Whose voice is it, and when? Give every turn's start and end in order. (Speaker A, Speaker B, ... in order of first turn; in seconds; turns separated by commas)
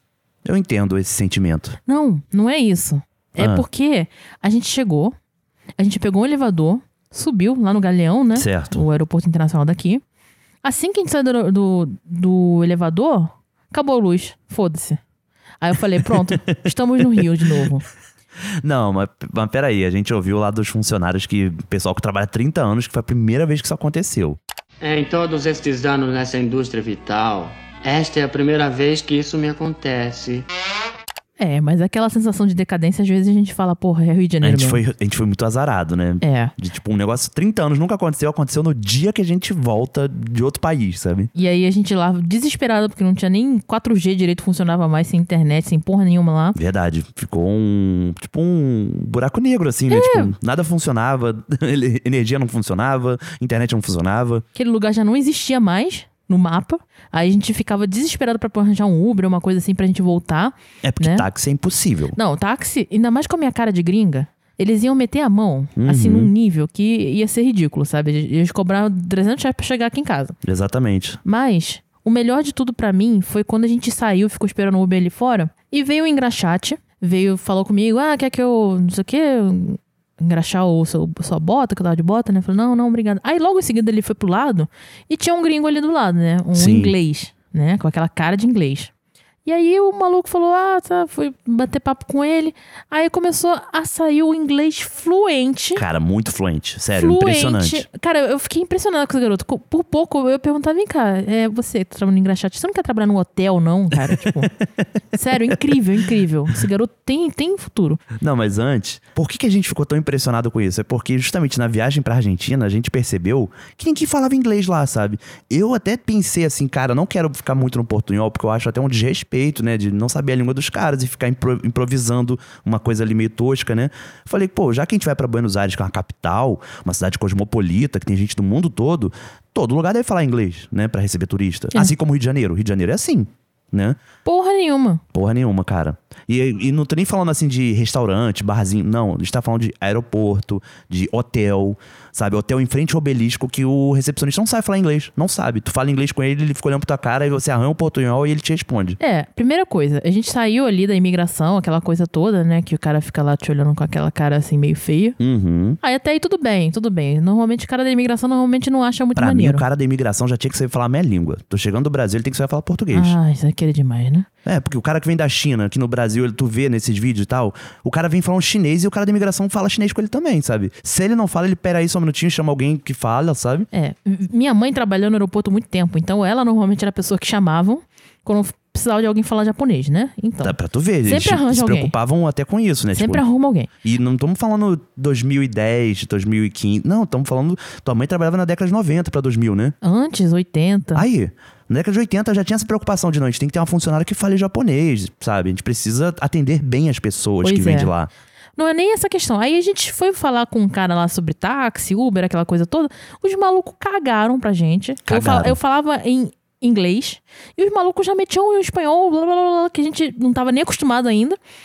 Speaker A: 0.4-1.8, Speaker B: 1.9-5.2, Speaker A: 3.4-3.6, Speaker B: 5.8-10.0, Speaker A: 8.4-8.8, Speaker B: 10.6-15.0, Speaker B: 15.6-17.9, Speaker A: 16.0-16.3, Speaker A: 17.2-17.7, Speaker A: 18.6-24.4, Speaker C: 24.8-30.5, Speaker B: 31.4-34.8, Speaker A: 34.4-41.3, Speaker B: 36.2-36.5, Speaker B: 41.4-46.6, Speaker A: 46.5-54.5, Speaker B: 49.9-50.3, Speaker B: 54.5-61.3, Speaker A: 60.8-62.2, Speaker B: 62.1-70.3, Speaker A: 65.8-66.3, Speaker A: 70.4-71.2, Speaker B: 71.2-88.9, Speaker A: 86.5-87.0, Speaker B: 89.5-95.8, Speaker A: 95.8-97.9, Speaker B: 97.0-104.5, Speaker A: 104.0-104.4, Speaker B: 105.1-108.0, Speaker A: 105.5-105.8, Speaker A: 108.2-134.0, Speaker B: 134.2-135.0, Speaker A: 135.1-149.0, Speaker B: 149.0-155.2, Speaker A: 155.2-155.8, Speaker B: 155.8-159.6, Speaker A: 159.2-163.2, Speaker B: 162.9-164.3, Speaker A: 164.4-173.7, Speaker B: 173.7-181.9, Speaker A: 180.4-183.2, Speaker B: 182.9-183.7, Speaker A: 183.8-189.8, Speaker B: 189.8-191.1, Speaker A: 190.9-198.1, Speaker B: 197.4-197.9, Speaker B: 198.6-211.4, Speaker A: 205.1-205.6